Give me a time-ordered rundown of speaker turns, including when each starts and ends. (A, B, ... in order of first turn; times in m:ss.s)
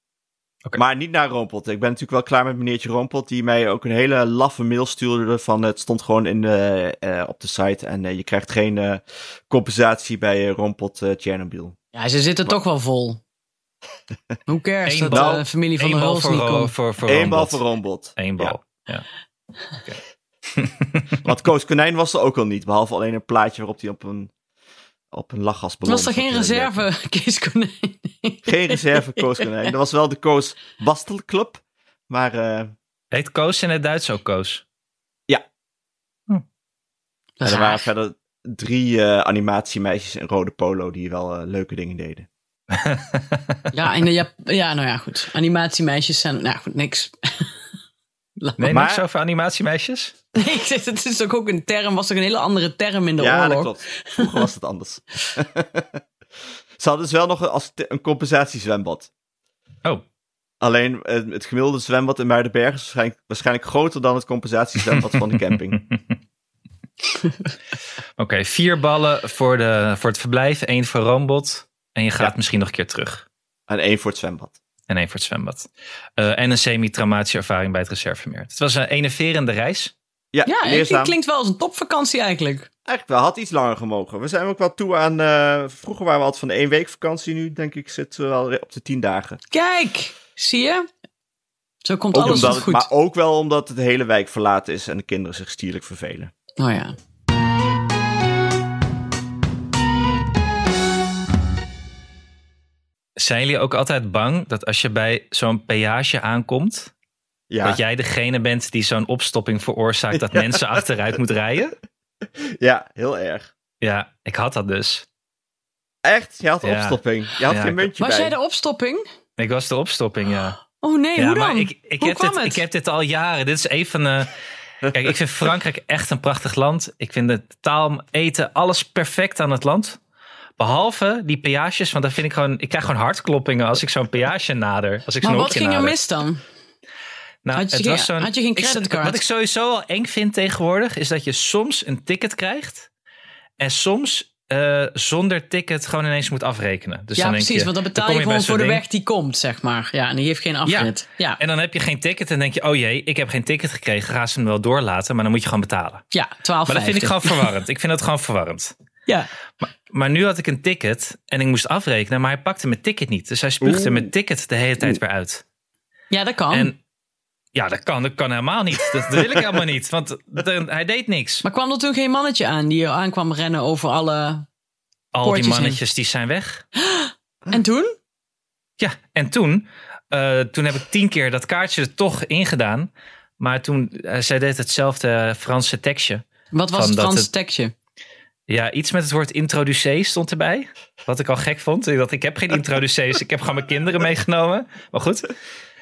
0:00.8-0:11.8 A
0:11.9-0:13.2 B
0:14.5-0:16.7 B
0:14.9-0:17.6 C
0:15.1-0:15.4 A
0:17.0-0:18.6 A
0:18.2-0:19.0 C
0:20.6-0:21.2 C
0:21.2-0:24.3 A
0:25.1-0:26.9 A
0:25.9-0:29.5 B
0:28.5-0:32.7 A
0:33.1-0:34.6 C
0:37.4-0:37.9 B
0:37.4-0:42.3 A
0:42.7-0:43.6 C
0:43.7-0:47.5 B
0:48.4-0:48.8 B
0:48.6-0:50.2 C
0:48.6-0:49.0 A
0:50.4-0:54.4 B
0:53.2-0:56.0 A
0:56.8-0:59.1 A
1:00.6-1:05.8 A
1:05.3-1:06.2 C
1:08.2-1:13.2 C
1:13.7-1:14.6 A
1:14.9-1:19.9 C
1:20.3-1:21.2 A
1:20.4-1:22.7 B
1:22.9-1:29.4 A
1:29.5-1:30.9 B
1:31.8-1:32.9 B
1:32.1-1:36.3 A
1:36.6-1:37.0 B
1:43.2-1:46.9 C
1:47.5-1:47.8 A
1:47.6-1:51.8 C
1:50.3-1:50.7 A
1:52.4-1:53.5 A
1:53.8-1:55.1 C
1:56.0-1:58.3 A
1:56.6-1:57.9 C
1:58.0-1:59.0 B
1:59.4-2:00.6 C
2:00.8-2:02.6 B
2:01.2-2:04.3 C
2:04.9-2:10.0 C
2:10.6-2:16.0 C
2:15.2-2:16.4 B
2:17.4-2:22.9 C
2:17.6-2:19.2 B
2:23.6-2:28.8 C
2:27.2-2:31.4 B
2:30.6-2:36.0 C
2:36.1-2:37.5 B
2:36.7-2:38.7 C
2:39.6-2:45.4 C
2:43.6-2:44.1 A
2:46.1-2:46.7 B
2:47.6-2:51.4 C
2:51.4-2:54.5 B
2:55.1-2:56.6 C
2:55.2-2:55.8 B
2:56.8-2:58.0 B
2:58.8-3:07.3 C
3:06.5-3:07.7 B
3:08.5-3:15.3 C